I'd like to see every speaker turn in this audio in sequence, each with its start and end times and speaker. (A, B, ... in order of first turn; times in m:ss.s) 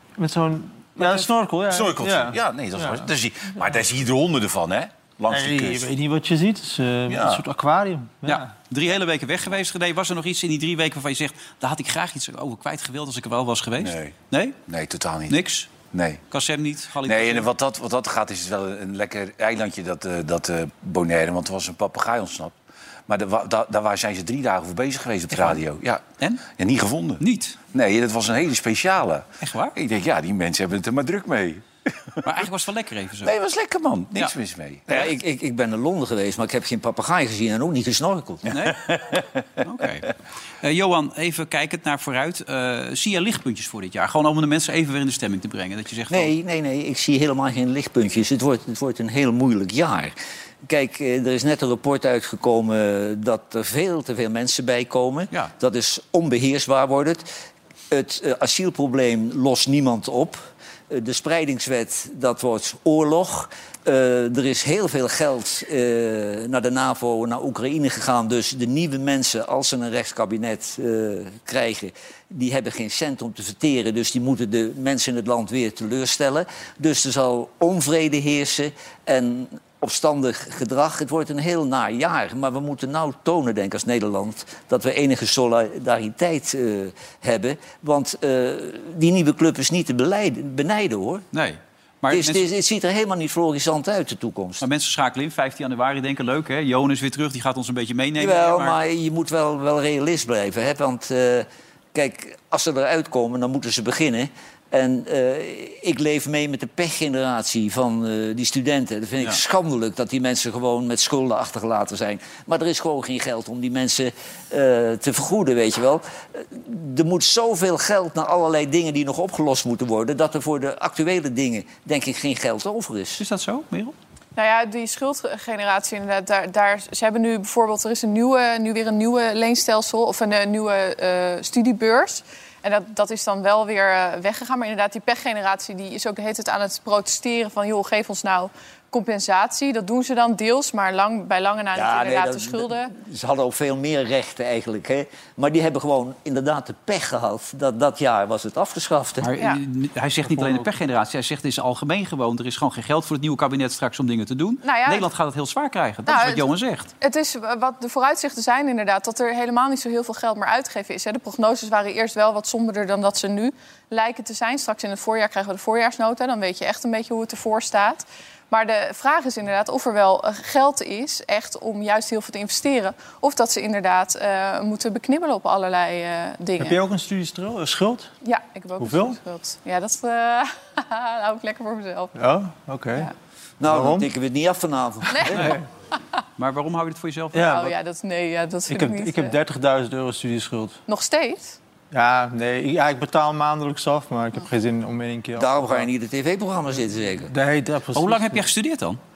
0:00.2-0:03.1 A
0:01.0-0:05.9 B
0:05.3-0:08.5 A
0:07.1-0:07.4 B
0:08.2-0:14.6 C
0:13.8-0:14.2 B
0:14.7-0:16.2 B
0:15.3-0:15.7 C
0:16.3-0:17.5 C
0:17.1-0:22.5 B
0:23.1-0:32.2 B
0:25.3-0:25.6 C
0:27.2-0:27.6 C
0:29.4-0:29.8 C
0:32.2-0:33.4 C
0:33.2-0:34.9 B
0:34.9-0:38.5 D
0:38.5-0:38.8 C
0:38.6-0:39.3 B
0:39.6-0:46.3 C
0:46.1-0:50.1 D
0:50.7-0:57.3 D
0:57.9-1:31.3 D
1:31.3-1:32.5 C
1:32.1-1:34.6 D
1:34.6-1:38.8 C
1:38.2-2:03.2 D
2:03.2-2:04.0 C
2:04.4-2:22.9 E
2:21.7-2:29.3 D
2:29.2-2:36.9 C
2:30.3-2:30.7 A
2:34.6-2:35.1 E
2:36.1-2:36.5 E
2:37.0-2:56.8 E
2:56.6-2:58.1 A
2:58.2-3:02.2 E
2:58.8-2:59.2 A
3:02.2-3:03.1 A
3:03.6-3:05.6 D
3:03.6-3:04.1 A
3:05.1-3:05.4 E
3:05.4-3:05.6 A
3:06.4-3:07.5 C
3:07.3-3:07.7 A
3:07.4-3:09.4 E
3:08.7-3:10.8 A
3:10.9-3:11.6 E
3:11.9-3:15.9 A
3:15.4-3:17.3 D
3:17.3-3:18.4 A
3:18.0-3:19.0 C